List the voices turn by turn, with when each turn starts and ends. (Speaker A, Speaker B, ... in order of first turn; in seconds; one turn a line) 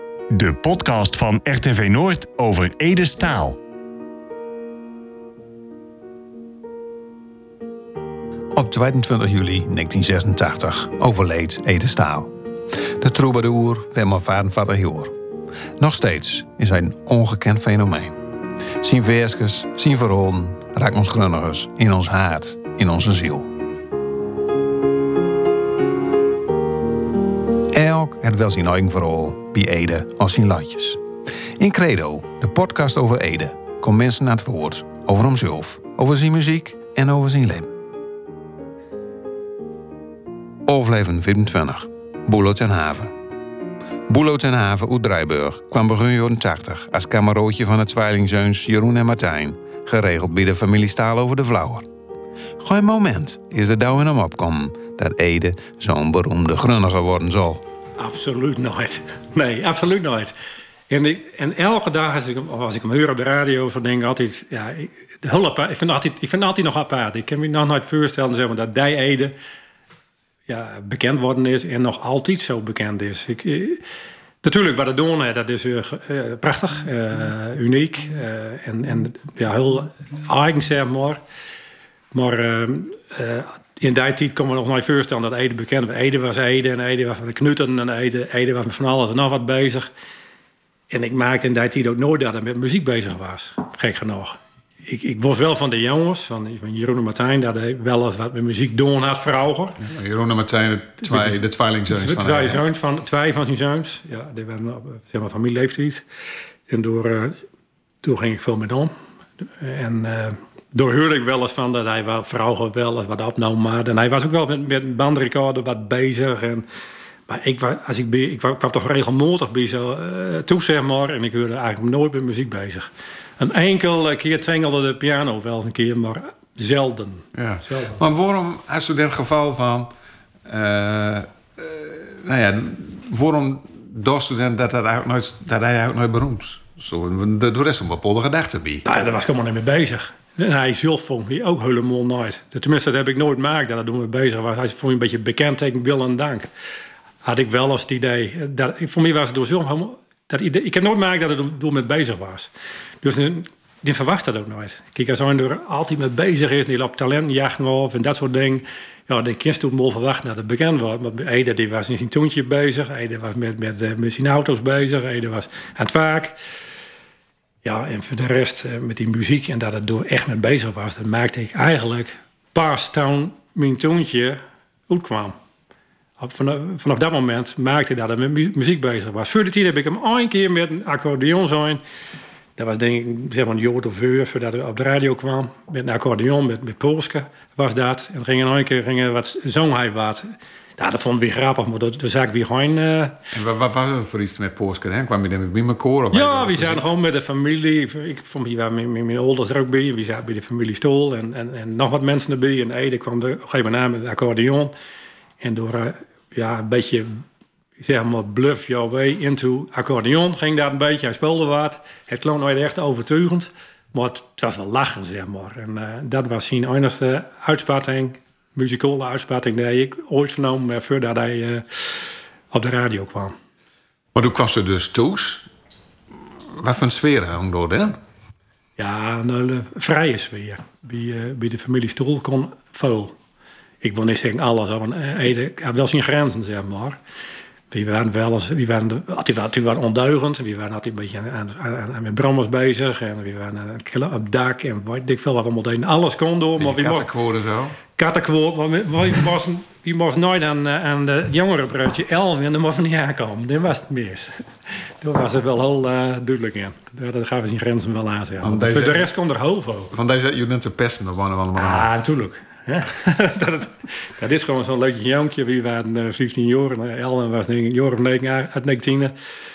Speaker A: 0.3-3.6
Speaker B: 8.5-15.2
Speaker B: 15.8-18.2
Speaker B: 18.8-23.5
Speaker B: 27.7-31.0
Speaker B: 31.6-37.7
Speaker B: 40.6-43.1
Speaker B: 44.1-51.9
Speaker B: 52.6-57.6
Speaker C: 58.0-60.3
Speaker C: 60.9-69.3
Speaker C: 70.5-73.8
Speaker C: 74.4-81.2
Speaker C: 82.1-89.9
Speaker C: 90.9-99.8
Speaker B: 99.8-102.6
Speaker C: 101.0-101.3
Speaker C: 101.9-106.0
Speaker C: 106.7-107.4
Speaker C: 108.0-108.9
Speaker C: 109.6-116.6
Speaker C: 117.3-128.0
Speaker B: 127.3-129.9
Speaker B: 130.4-138.8
Speaker C: 138.8-146.5
Speaker C: 147.2-152.5
Speaker C: 153.0-166.4
Speaker C: 167.6-175.3
Speaker C: 176.2-181.8
Speaker C: 182.6-193.2
Speaker B: 193.3-196.8
Speaker C: 196.1-204.7
Speaker C: 205.4-207.2
Speaker C: 207.8-223.3
Speaker B: 224.1-225.5
Speaker B: 226.5-228.0
Speaker C: 228.8-233.1
Speaker C: 233.8-237.0
Speaker C: 237.7-247.1
Speaker B: 246.6-247.8
Speaker C: 247.9-254.4
Speaker C: 255.0-259.9
Speaker B: 258.4-259.1
Speaker B: 259.9-261.9
Speaker C: 261.6-269.1